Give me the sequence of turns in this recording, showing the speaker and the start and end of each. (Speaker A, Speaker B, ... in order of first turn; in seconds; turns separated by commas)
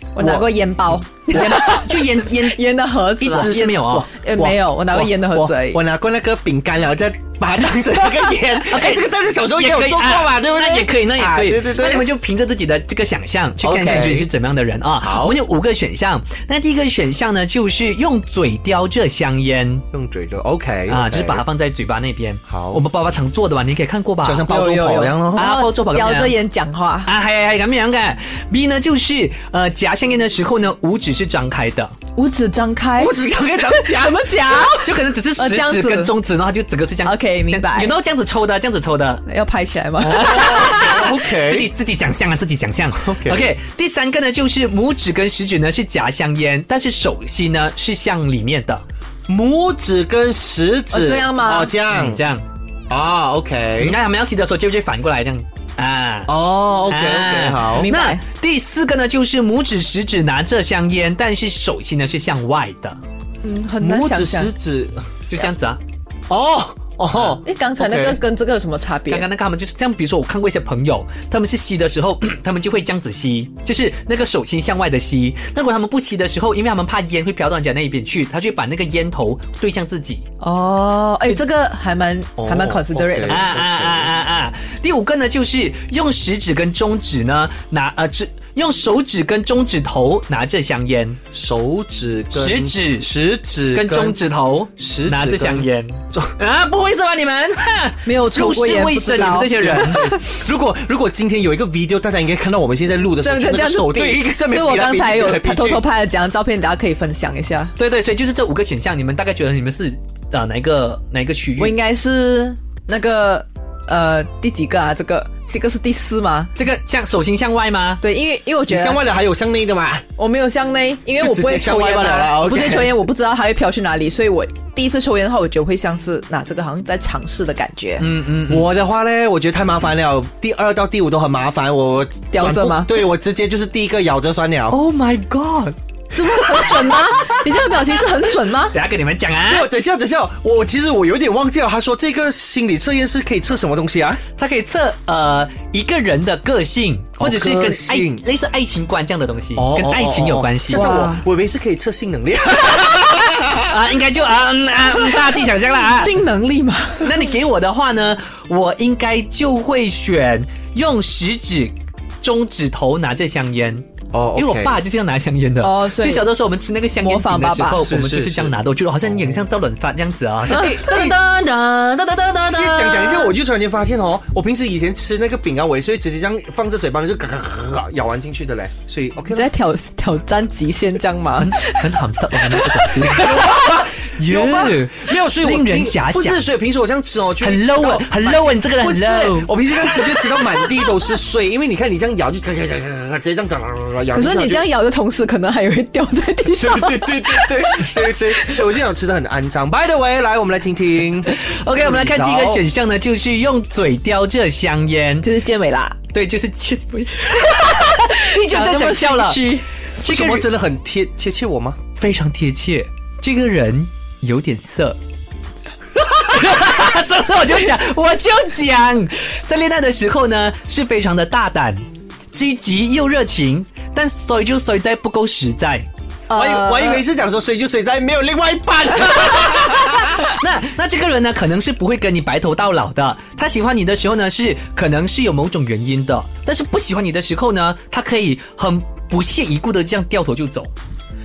Speaker A: 0.1-5.8, Speaker B: 0.2-0.5, Speaker C: 1.3-4.1, Speaker B: 3.3-12.1, Speaker C: 8.7-19.9, Speaker B: 13.6-14.3, Speaker B: 15.0-15.4, Speaker B: 19.9-21.4, Speaker C: 20.9-24.5, Speaker B: 22.5-22.8, Speaker B: 24.2-25.6, Speaker A: 24.5-27.1, Speaker C: 25.4-26.4, Speaker C: 27.1-31.9, Speaker A: 32.2-36.1, Speaker B: 33.0-34.3, Speaker C: 34.5-39.2, Speaker A: 37.0-37.9, Speaker A: 39.3-40.6, Speaker B: 40.0-41.7, Speaker C: 40.1-48.8, Speaker B: 43.0-43.5, Speaker B: 49.3-52.2, Speaker A: 50.9-51.7, Speaker C: 51.9-52.4, Speaker B: 52.9-54.0, Speaker C: 53.8-56.3, Speaker B: 56.3-57.9, Speaker C: 56.9-63.0, Speaker A: 57.8-58.2, Speaker A: 63.4-64.5, Speaker B: 63.8-65.3, Speaker C: 65.3-65.8, Speaker B: 66.3-68.2, Speaker A: 67.4-69.2, Speaker C: 69.1-80.3, Speaker A: 80.4-83.5, Speaker B: 82.4-84.1, Speaker C: 83.3-91.2, Speaker B: 91.3-94.2, Speaker C: 92.3-93.1, Speaker C: 93.7-100.2, Speaker B: 94.8-96.3, Speaker A: 98.0-100.2, Speaker B: 99.6-105.8, Speaker A: 103.2-107.7, Speaker C: 107.8-111.8, Speaker A: 111.6-116.5, Speaker C: 116.6-118.0, Speaker A: 118.0-119.0, Speaker B: 118.7-120.1, Speaker A: 120.2-128.1, Speaker B: 121.2-123.0, Speaker C: 128.0-128.7, Speaker B: 128.5-134.8, Speaker A: 132.3-133.0, Speaker C: 134.7-137.4, Speaker A: 136.1-138.8, Speaker C: 138.7-139.7, Speaker B: 139.4-144.2, Speaker C: 144.4-151.1, Speaker B: 147.2-148.2, Speaker B: 149.6-153.8, Speaker A: 150.7-151.2, Speaker C: 152.8-156.2, Speaker A: 155.9-157.3, Speaker C: 157.0-173.3, Speaker B: 164.1-164.8, Speaker A: 165.6-166.3, Speaker A: 167.0-167.9, Speaker B: 167.8-168.6, Speaker B: 169.1-169.4, Speaker B: 170.4-171.2, Speaker A: 170.5-170.8, Speaker B: 172.5-179.5, Speaker A: 179.3-181.8, Speaker C: 181.4-186.4, Speaker A: 182.4-183.4, Speaker B: 183.2-194.6, Speaker C: 187.4-189.5, Speaker A: 194.1-198.3, Speaker B: 196.6-202.6, Speaker C: 201.3-205.3, Speaker A: 205.2-206.0, Speaker C: 206.1-210.5, Speaker A: 207.7-209.7, Speaker B: 210.0-211.8, Speaker C: 212.0-215.0, Speaker C: 215.9-221.8, Speaker C: 222.3-225.9, Speaker A: 226.3-227.0, Speaker B: 226.3-230.3, Speaker C: 228.9-240.7